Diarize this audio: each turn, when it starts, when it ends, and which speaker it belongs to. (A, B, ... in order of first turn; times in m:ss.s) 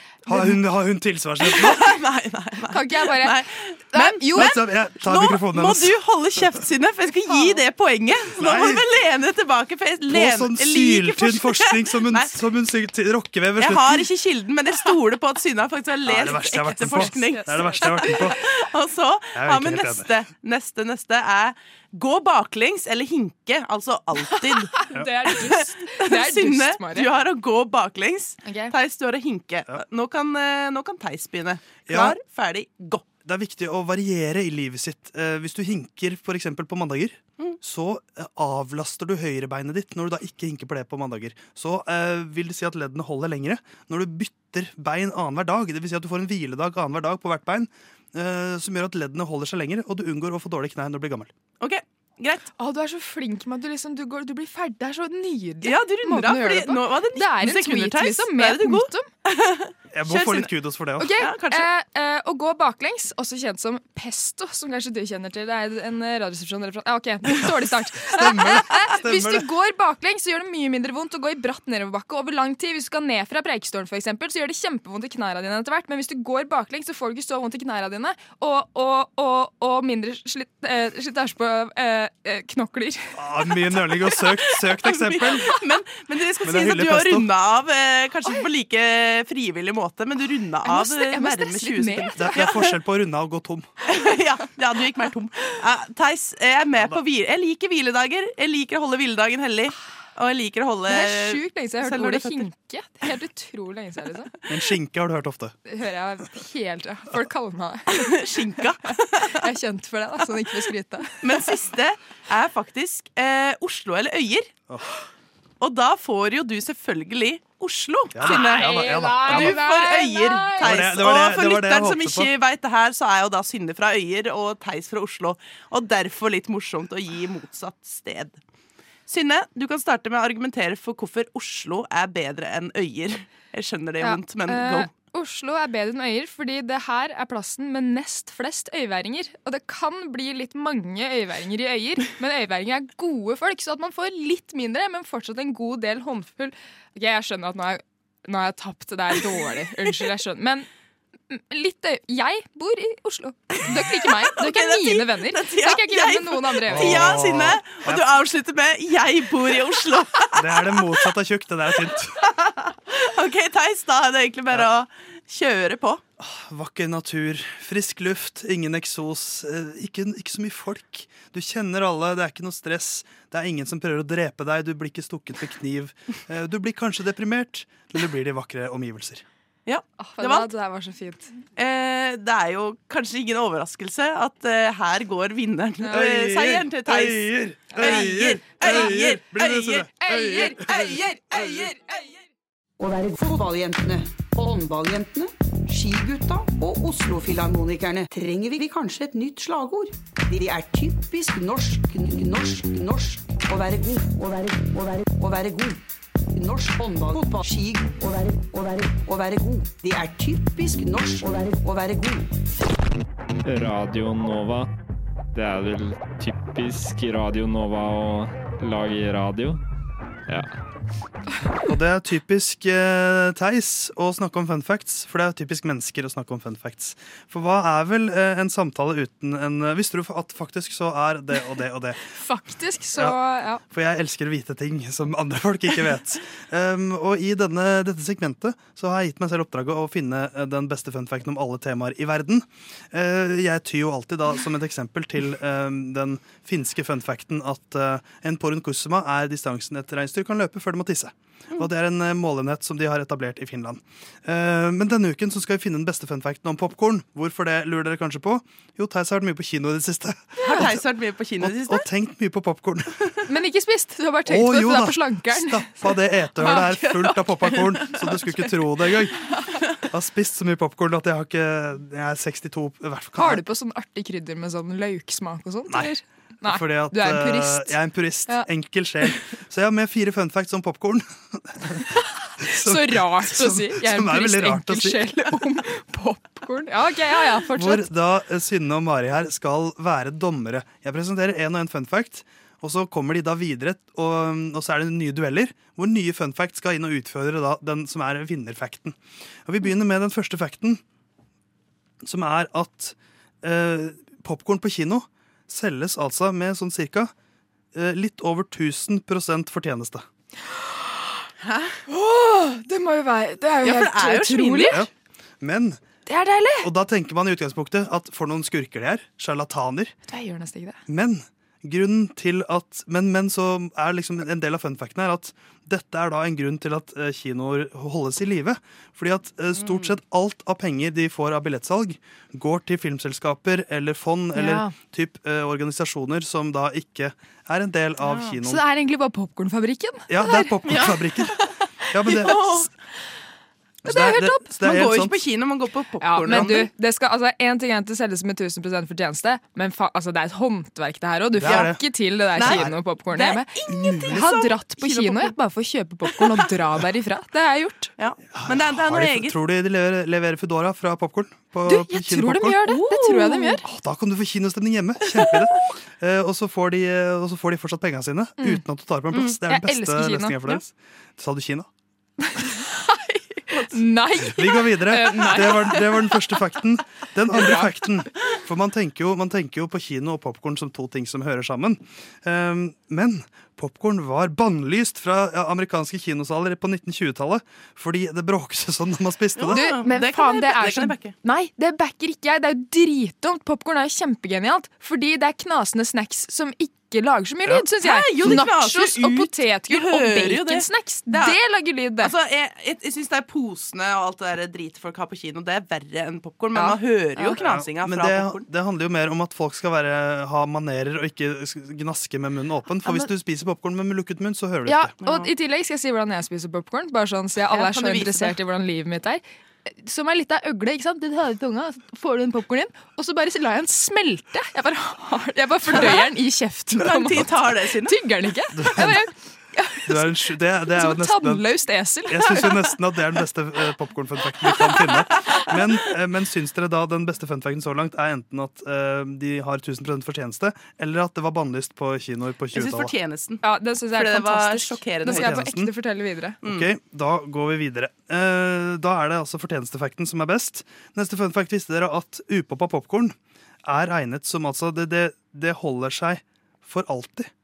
0:00.2-0:02.0 A
0:01.4-0:12.4 B
0:02.7-0:03.4 C
0:03.9-0:04.6 C
0:04.3-0:06.0 A
0:08.3-0:08.8 A
0:10.1-0:14.0 A
0:13.6-0:33.0 B
0:16.0-0:18.4 A
0:16.5-0:18.1 C
0:19.3-0:20.2 A
0:24.4-0:27.1 C
0:24.9-0:25.2 A
0:28.4-0:28.7 C
0:31.9-0:32.2 A
0:33.2-0:51.3 A
0:51.6-0:52.5 B
0:52.6-0:59.1 C
0:55.6-1:01.7 B
0:59.9-1:01.2 A
1:01.0-1:23.3 C
1:08.1-1:09.4 A
1:23.2-1:25.6 A
1:23.9-1:32.8 B
1:26.4-1:27.3 A
1:30.6-1:32.3 C
1:32.1-1:33.7 A
1:33.9-1:42.5 B
1:36.7-1:37.0 A
1:40.9-1:44.3 C
1:44.5-1:45.5 A
1:45.7-1:48.1 C
1:47.9-1:49.5 B
1:48.9-1:51.4 C
1:51.2-1:54.5 B
1:55.6-2:08.4 B
1:58.1-1:59.7 A
1:58.2-2:00.8 C
2:00.6-2:02.3 A
2:09.1-2:14.9 B
2:14.0-2:30.7 C
2:31.3-2:37.0 C
2:33.6-2:41.1 B
2:36.6-2:38.1 A
2:40.3-2:42.2 A
2:41.8-2:46.0 B
2:46.2-2:59.2 A
2:59.6-3:00.5 B
3:00.0-3:01.3 C
3:01.5-3:12.0 B
3:05.9-3:11.7 A
3:07.8-3:08.0 C
3:10.0-3:10.6 C
3:12.8-3:25.8 D
3:26.3-3:32.3 D
3:33.4-3:34.7 E
3:35.3-3:39.6 E
3:41.7-3:52.0 A
3:52.1-3:53.6 C
3:53.7-4:20.8 A
4:20.4-4:21.8 B
4:21.4-4:23.0 A
4:23.3-4:25.9 C
4:24.3-4:29.2 A
4:26.4-4:28.9 B
4:29.9-4:33.4 A
4:33.2-4:37.8 C
4:35.7-4:41.9 A
4:42.4-4:47.9 C
4:42.4-4:45.1 A
4:47.5-5:00.8 A
5:02.0-5:07.1 A
5:07.7-5:10.0 A
5:11.4-5:11.8 B
5:11.9-5:14.8 C
5:13.6-5:14.8 B
5:14.6-5:15.8 A
5:16.0-5:16.7 C
5:16.6-5:19.9 A
5:20.1-5:20.8 C
5:20.9-5:38.6 A
5:29.5-5:30.0 B
5:34.3-5:34.7 C
5:38.0-5:38.4 B
5:38.4-5:40.9 C
5:40.1-5:41.3 A
5:40.7-5:40.9 B
5:41.9-5:42.6 A
5:42.2-5:42.6 B
5:43.8-5:45.2 A
5:43.8-5:44.5 C
5:44.5-5:46.7 B
5:46.0-5:57.9 C
5:51.4-5:52.8 A
5:51.4-5:55.4 B
5:53.7-5:54.3 A
5:56.0-5:56.5 B
5:58.0-5:59.4 B
5:58.3-6:11.7 A
6:01.6-6:03.6 C
6:02.6-6:03.6 B
6:05.0-6:05.6 B
6:09.5-6:10.6 C
6:12.2-6:16.1 C
6:13.5-6:13.8 B
6:14.2-6:29.7 A
6:15.0-6:15.8 B
6:17.3-6:17.9 C
6:29.3-6:31.2 B
6:29.5-6:42.1 C
6:37.7-6:41.4 B
6:38.2-6:38.4 A
6:42.0-6:48.5 B
6:46.5-6:47.4 C
6:47.4-6:54.9 A
6:54.6-7:12.8 C
6:55.0-6:55.3 B
6:57.4-6:58.4 B
7:05.6-7:06.2 B
7:06.7-7:08.1 B
7:08.5-7:09.0 A
7:09.8-7:11.4 A
7:12.1-7:22.9 A
7:14.5-7:14.8 B
7:22.5-7:25.6 B
7:23.4-7:26.4 C
7:25.0-7:25.7 A
7:26.4-7:26.7 B
7:26.4-7:33.1 A
7:33.6-7:37.3 A